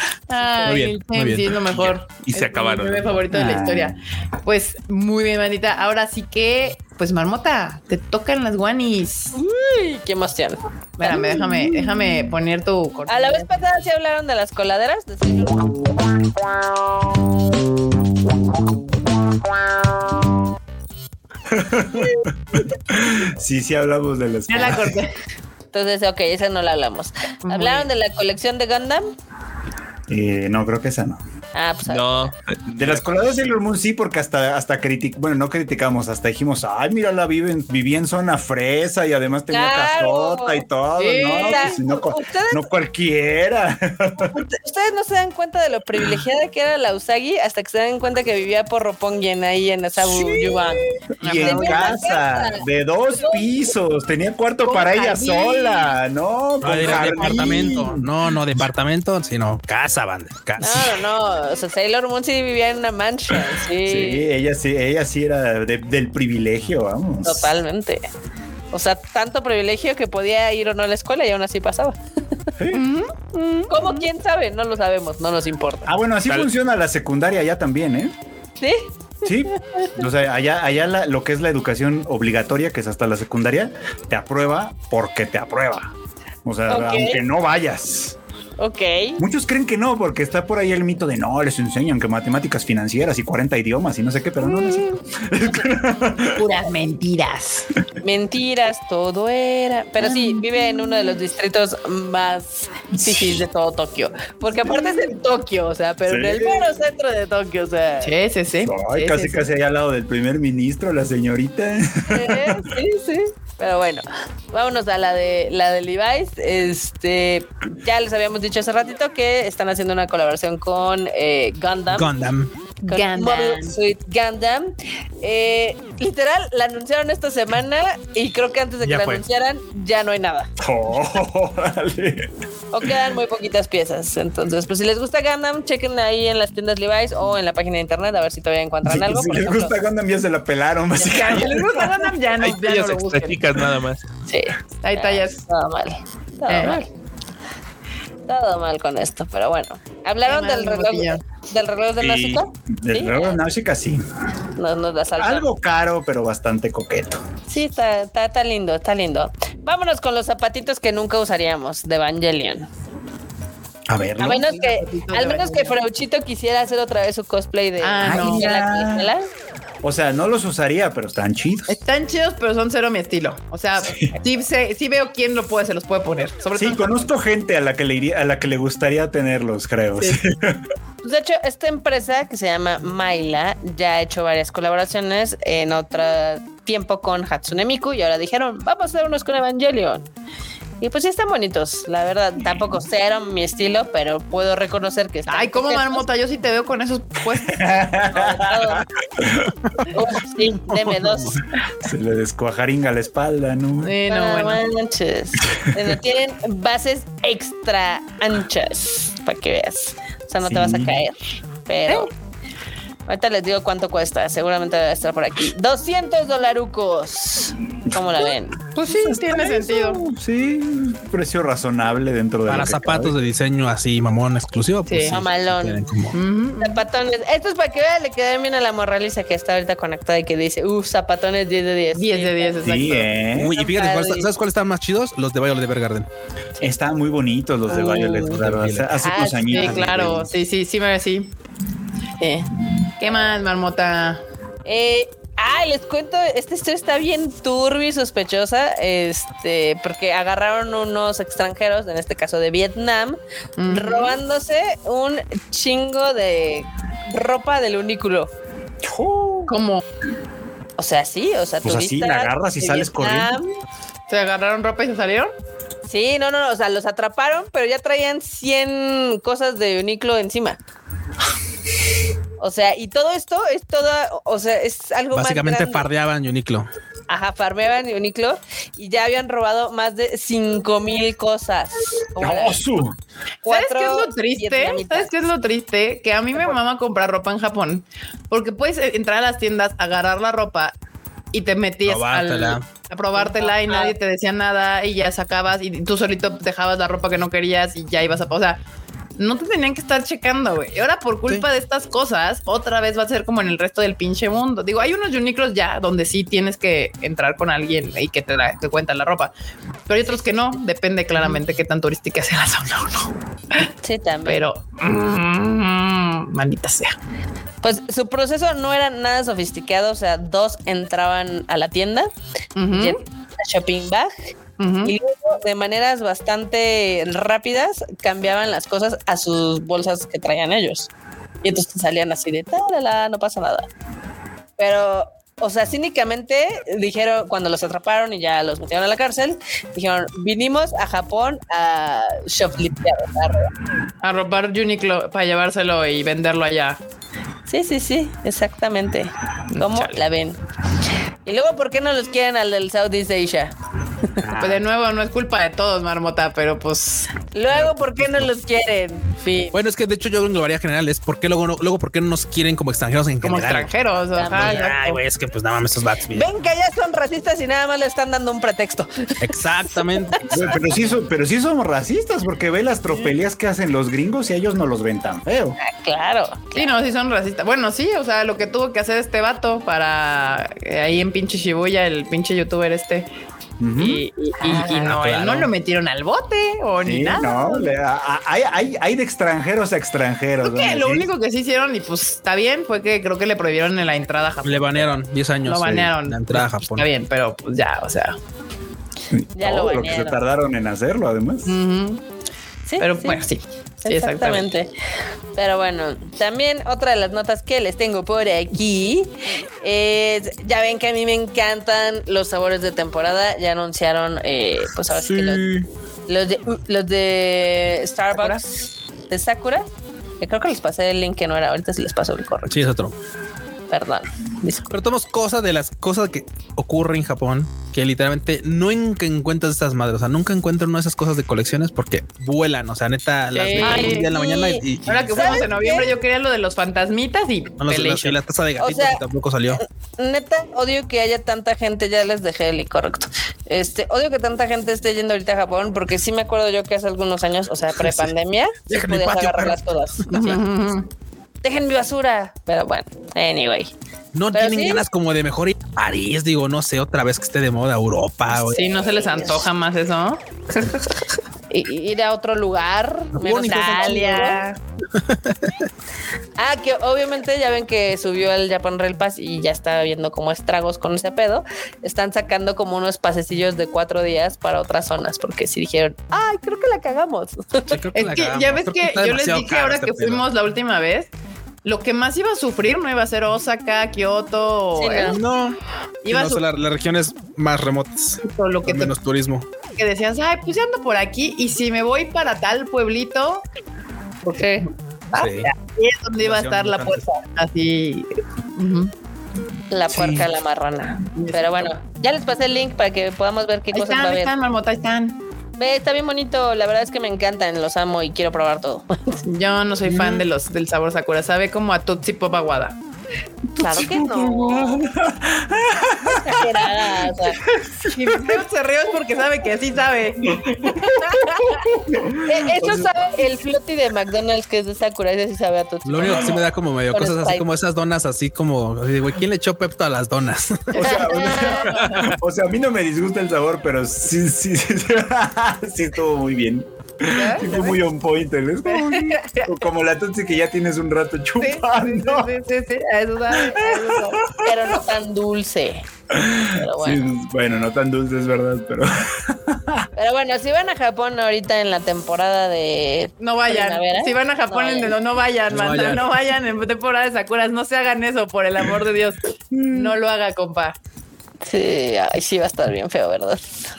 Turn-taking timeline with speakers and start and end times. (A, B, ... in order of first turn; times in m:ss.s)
0:00.3-0:09.3 A
0:00.6-0:01.5 B
0:01.6-0:03.2 C
0:03.3-0:04.0 D
0:09.3-0:11.9 E
0:11.0-0:13.6 A
0:13.1-0:15.9 E
0:21.5-0:25.0 D
0:21.9-0:22.2 E
0:24.5-0:25.1 A
0:25.7-0:29.1 E
0:27.4-0:27.9 A
0:30.1-0:31.2 D
0:31.5-0:32.3 E
0:31.8-0:33.3 C
0:32.7-0:44.4 D
0:39.5-0:40.6 E
0:41.0-0:41.8 A
0:41.2-0:42.6 E
0:44.2-0:52.6 E
0:50.0-0:58.1 D
0:51.2-0:52.0 A
0:53.2-0:53.5 E
0:54.6-0:55.9 A
0:56.6-1:01.0 B
1:00.6-1:04.2 E
1:03.8-1:07.6 D
1:07.2-1:08.0 E
1:08.7-1:12.5 E
1:12.6-1:12.8 D
1:12.7-1:14.1 A
1:13.7-1:15.9 E
1:15.8-1:18.1 D
1:18.6-1:20.0 E
1:19.2-1:25.9 D
1:26.4-1:28.2 D
1:26.7-1:27.2 E
1:28.6-1:29.2 E
1:29.2-1:36.4 D
1:34.4-1:35.7 E
1:36.3-1:37.7 A
1:38.0-1:48.1 E
1:40.0-1:40.4 A
1:42.9-1:43.4 D
1:46.0-1:46.7 D
1:48.0-1:49.4 A
1:48.6-1:52.7 D
1:52.1-2:02.1 E
2:01.9-2:02.5 B
2:02.8-2:03.7 A
2:02.9-2:10.5 E
2:08.8-2:09.2 B
2:10.6-2:12.3 D
2:12.7-2:19.7 E
2:18.8-2:22.0 D
2:21.0-2:23.4 A
2:22.4-2:24.0 C
2:24.3-2:26.9 E
2:24.8-2:25.4 A
2:26.5-2:26.8 A
2:28.3-2:33.3 E
2:30.2-2:31.2 A
2:32.0-2:34.0 D
2:34.6-2:35.5 E
2:35.2-2:37.2 D
2:37.5-2:42.7 E
2:43.9-2:44.4 D
2:44.2-2:49.3 E
2:44.2-2:45.8 A
2:47.8-2:48.5 A
2:48.0-2:49.1 D
2:49.8-2:51.8 D
2:51.7-2:57.0 A
2:53.8-2:54.1 D
2:56.5-3:00.6 D
3:01.0-3:10.1 E
3:10.8-3:16.0 E
3:15.3-3:17.8 A
3:17.5-3:19.6 D
3:18.1-3:18.9 E
3:19.9-3:21.4 E
3:20.6-3:21.4 B
3:21.8-3:23.9 D
3:23.8-3:24.6 A
3:24.1-3:32.1 E
3:30.4-3:31.0 D
3:33.1-3:38.6 E
3:37.9-3:38.2 D
3:38.7-3:40.0 A
3:38.8-3:43.1 D
3:42.4-3:46.2 B
3:44.9-3:45.2 A
3:45.1-3:45.8 E
3:46.1-3:46.8 A
3:46.6-3:52.5 E
3:51.9-3:53.1 A
3:52.6-3:53.6 D
3:53.3-3:56.1 B
3:53.5-3:54.3 E
3:56.6-4:00.3 D
3:57.7-3:58.2 E
3:58.0-3:59.0 B
3:59.0-3:59.8 E
3:59.4-4:01.3 A
4:02.2-4:02.5 E
4:03.0-4:04.2 A
4:04.6-4:18.3 E
4:13.6-4:14.2 A
4:18.8-4:19.5 D
4:19.5-4:19.8 A
4:20.8-4:23.5 E
4:21.6-4:23.4 D
4:24.1-4:25.3 A
4:25.8-4:30.6 E
4:32.4-4:35.8 E
4:35.1-4:36.7 B
4:37.1-4:42.6 E
4:42.2-4:43.0 D
4:43.4-4:45.1 E
4:43.4-4:50.7 A
4:51.3-4:58.6 A
4:51.8-4:52.6 B
4:53.2-4:53.9 E
4:59.2-5:09.3 A
5:09.9-5:13.7 A
5:13.8-5:14.4 E
5:14.2-5:16.9 A
5:17.6-5:22.1 E
5:22.6-5:23.0 A
5:22.7-5:24.1 E
5:24.6-5:24.9 A
5:24.8-5:30.9 E
5:31.4-5:33.7 E
5:34.6-5:43.5 E
5:44.0-5:46.8 A
5:47.5-5:50.4 E
5:49.6-5:49.9 A
5:51.2-5:54.1 E
5:54.2-5:54.6 B
5:54.4-5:57.2 A
5:57.3-5:59.6 E
5:57.5-5:58.3 B
5:59.5-6:06.3 B
6:03.2-6:05.0 A
6:04.1-6:04.7 E
6:06.1-6:09.3 E
6:09.2-6:10.6 B
6:10.0-6:10.2 E
6:10.3-6:15.6 D
6:15.6-6:16.8 E
6:16.5-6:23.1 A
6:23.6-6:24.0 D
6:23.8-6:27.7 A
6:24.4-6:24.9 E
6:24.6-6:25.5 B
6:26.8-6:31.1 D
6:30.4-6:34.9 A
6:34.4-6:36.9 B
6:35.4-6:38.2 A
6:39.1-6:41.6 D
6:39.3-6:40.2 E
6:41.4-6:42.0 A
6:42.6-6:43.2 E
6:42.8-6:44.4 A
6:43.8-6:44.7 E
6:45.3-6:55.4 E
6:54.9-6:55.7 B
6:56.1-6:59.7 E
6:58.1-6:58.4 A
7:00.2-7:02.7 E
7:02.5-7:02.9 B
7:03.7-7:04.8 E
7:04.7-7:15.8 B
7:13.4-7:15.9 E
7:13.4-7:14.1 A
7:14.8-7:18.2 A
7:17.6-7:19.6 B
7:18.6-7:19.0 E
7:19.6-7:30.4 E
7:28.7-7:30.4 B
7:30.1-7:30.9 A
7:31.4-7:33.7 E
7:34.1-7:38.7 B
7:34.3-7:34.8 E
7:38.3-7:41.0 A
7:38.7-7:39.5 E
7:41.5-7:44.4 E
7:43.1-7:44.3 B
7:43.4-7:44.6 A
7:44.9-7:45.6 B
7:46.4-7:57.8 E
7:57.7-8:00.3 B
7:57.9-8:01.1 A
8:01.6-8:05.2 A
8:04.8-8:05.2 E
8:05.0-8:09.4 B
8:06.0-8:06.4 A
8:08.2-8:08.9 A
8:09.8-8:13.4 A
8:14.2-8:18.9 A
8:14.3-8:14.7 E
8:15.1-8:15.5 B
8:16.2-8:17.0 B
8:19.7-8:24.3 E
8:19.9-8:20.2 B
8:21.1-8:21.7 A
8:23.7-8:25.2 A
8:25.6-8:29.2 E
8:29.2-8:32.8 A
8:29.8-8:30.2 B
8:33.6-8:34.9 E
8:33.6-8:38.4 D
8:36.2-8:37.4 E
8:37.8-8:41.6 A
8:40.3-8:43.1 D
8:42.2-8:47.5 E
8:45.8-8:50.8 B
8:46.0-8:46.4 D
8:50.7-8:52.1 A
8:50.8-9:02.3 D
8:50.8-8:51.7 E
8:57.1-8:57.8 A
8:58.7-8:59.6 A
9:01.4-9:04.4 A
9:03.3-9:04.8 D
9:04.4-9:05.9 E
9:06.1-9:09.9 D
9:06.4-9:07.0 E
9:10.0-9:15.0 E
9:13.2-9:20.8 A
9:15.5-9:16.0 B
9:19.5-9:20.0 D
9:21.4-9:23.6 E